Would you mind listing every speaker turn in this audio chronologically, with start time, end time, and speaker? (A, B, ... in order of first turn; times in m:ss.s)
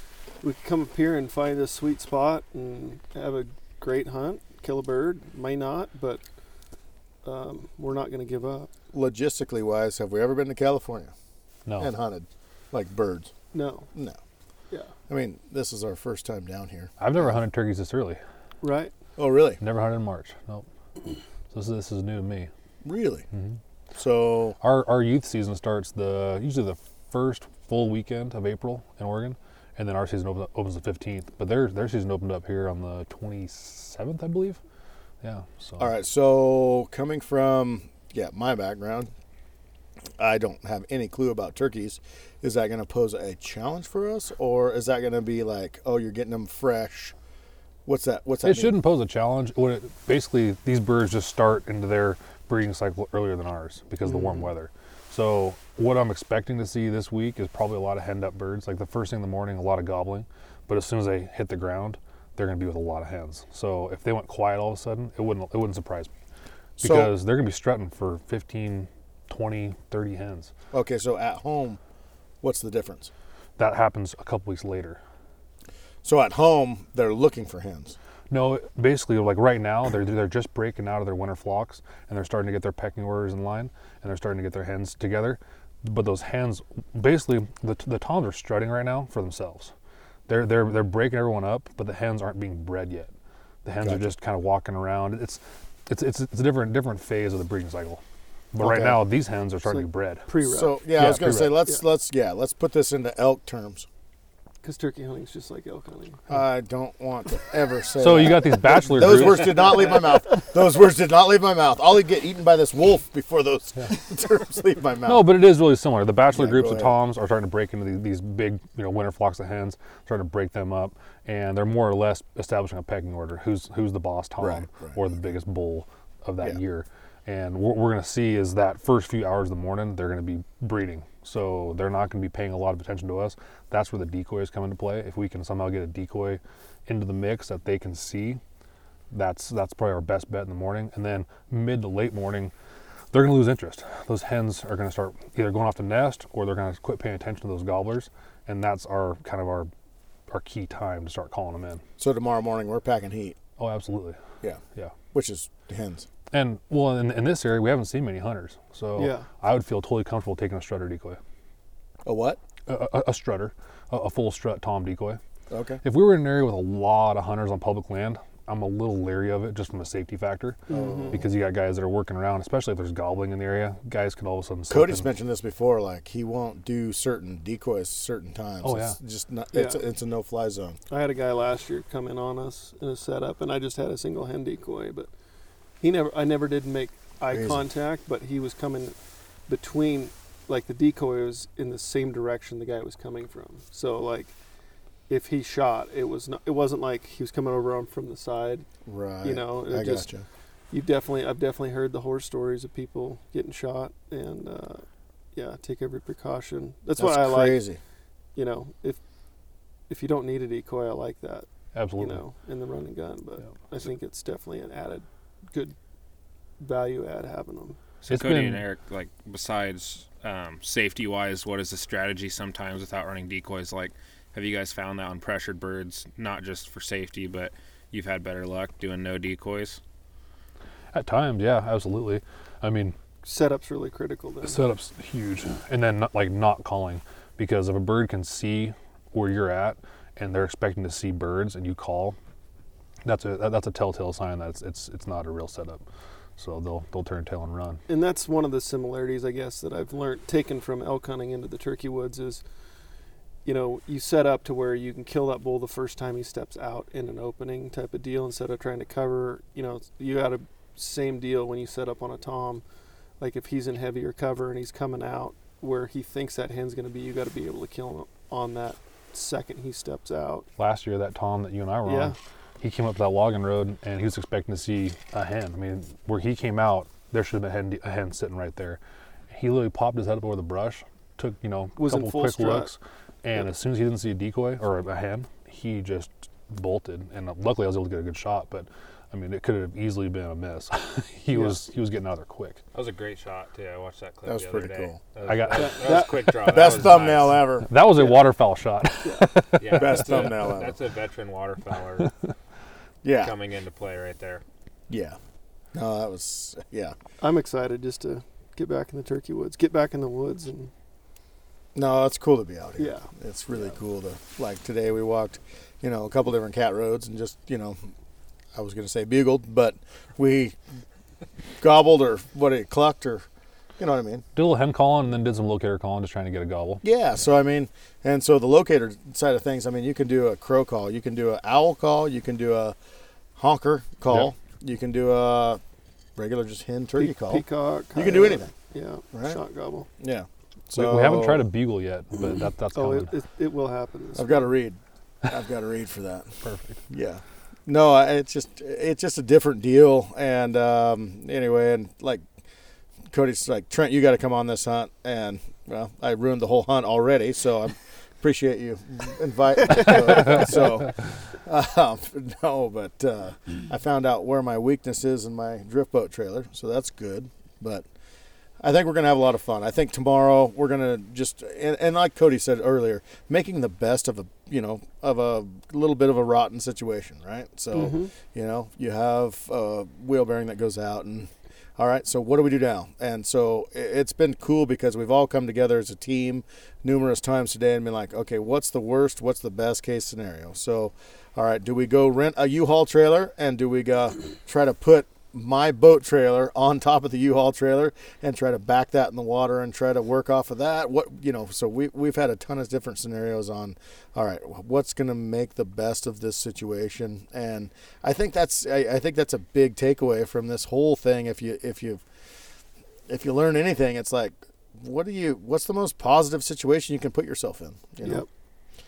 0:00.4-0:06.2 A
0:07.2-0:08.7 A
0:08.9-0:11.1 B
0:11.7-0:11.9 C
0:11.8-0:13.3 B
0:13.5-0:13.9 A
0:15.1-0:17.3 B
0:17.0-0:18.2 C
0:18.6-0:18.9 A
0:19.2-0:19.6 B
0:19.6-0:20.6 C
0:21.5-0:22.5 C
0:22.8-0:23.2 B
0:24.0-0:24.6 B
0:24.6-0:34.6 C
0:35.2-0:35.9 C
0:35.8-0:39.1 B
0:40.2-0:47.1 B
0:47.8-0:48.8 B
0:48.4-1:06.1 C
0:54.0-0:54.5 A
1:06.8-1:07.2 B
1:06.8-1:10.5 C
1:10.7-1:11.8 B
1:12.4-1:13.1 B
1:13.6-1:15.0 C
1:16.0-1:18.0 B
1:18.3-1:29.7 C
1:30.3-1:33.1 C
1:33.6-1:38.0 C
1:33.8-1:34.1 B
1:38.5-1:40.3 C
1:38.6-1:39.0 B
1:39.6-1:40.8 A
1:40.4-1:43.9 B
1:40.9-1:41.6 C
1:44.6-1:46.2 A
1:46.3-1:55.3 B
1:48.0-1:49.8 C
1:55.0-2:18.4 C
1:56.3-1:57.0 B
2:04.4-2:05.1 B
2:19.1-2:22.5 C
2:23.1-2:29.7 C
2:30.3-2:31.8 C
2:32.0-2:33.4 B
2:33.6-2:34.2 C
2:35.1-2:36.1 B
2:36.3-2:41.2 C
2:39.0-2:39.2 A
2:42.0-2:42.4 B
2:42.7-2:45.2 C
2:45.5-2:45.8 B
2:45.8-2:55.1 C
2:50.7-2:51.2 A
2:50.7-2:51.2 B
2:54.7-3:00.8 B
2:58.6-2:59.0 C
2:59.5-2:59.8 A
3:00.9-3:05.1 A
3:05.8-3:09.0 A
3:07.3-3:07.7 B
3:09.5-3:14.3 A
3:15.1-3:18.6 A
3:18.8-3:20.2 B
3:19.2-3:20.1 A
3:20.7-3:24.8 A
3:25.3-3:27.6 A
3:27.0-3:27.8 B
3:28.3-3:29.0 A
3:29.9-3:31.5 A
3:31.7-3:32.2 C
3:32.0-3:35.7 A
3:36.6-3:37.8 A
3:38.0-3:38.7 C
3:38.1-3:49.8 D
3:50.9-3:53.0 C
3:53.2-3:54.6 A
3:54.4-4:02.2 C
4:03.0-4:05.8 C
4:06.4-4:07.8 C
4:07.9-4:12.4 A
4:13.4-4:22.6 A
4:23.2-4:30.5 A
4:30.6-4:52.6 C
4:31.8-4:32.2 A
4:41.8-4:42.7 A
4:51.3-4:51.6 A
4:52.7-4:57.4 D
4:54.2-4:55.0 B
4:55.2-4:56.0 C
4:55.5-4:56.7 A
4:56.3-4:57.7 B
4:57.6-5:00.1 C
4:59.6-5:02.1 D
4:59.7-5:00.8 B
5:03.0-5:03.4 B
5:03.2-5:04.4 D
5:04.9-5:05.2 B
5:05.7-5:07.0 B
5:07.2-5:10.7 A
5:11.7-5:17.9 B
5:12.8-5:13.1 A
5:18.5-5:20.6 B
5:21.6-5:23.2 B
5:23.8-5:24.2 B
5:24.3-5:26.8 C
5:26.8-5:32.8 B
5:33.4-5:35.6 B
5:34.0-5:34.3 C
5:36.2-5:38.5 B
5:36.9-5:39.9 A
5:39.1-5:39.4 B
5:40.0-5:41.5 B
5:40.7-5:43.1 C
5:42.7-5:44.4 A
5:44.2-5:46.2 B
5:46.4-5:46.8 C
5:46.9-5:52.2 B
5:53.1-6:00.9 B
6:01.4-6:07.8 B
6:08.6-6:52.0 B
6:17.7-6:18.1 A
6:53.1-6:58.2 B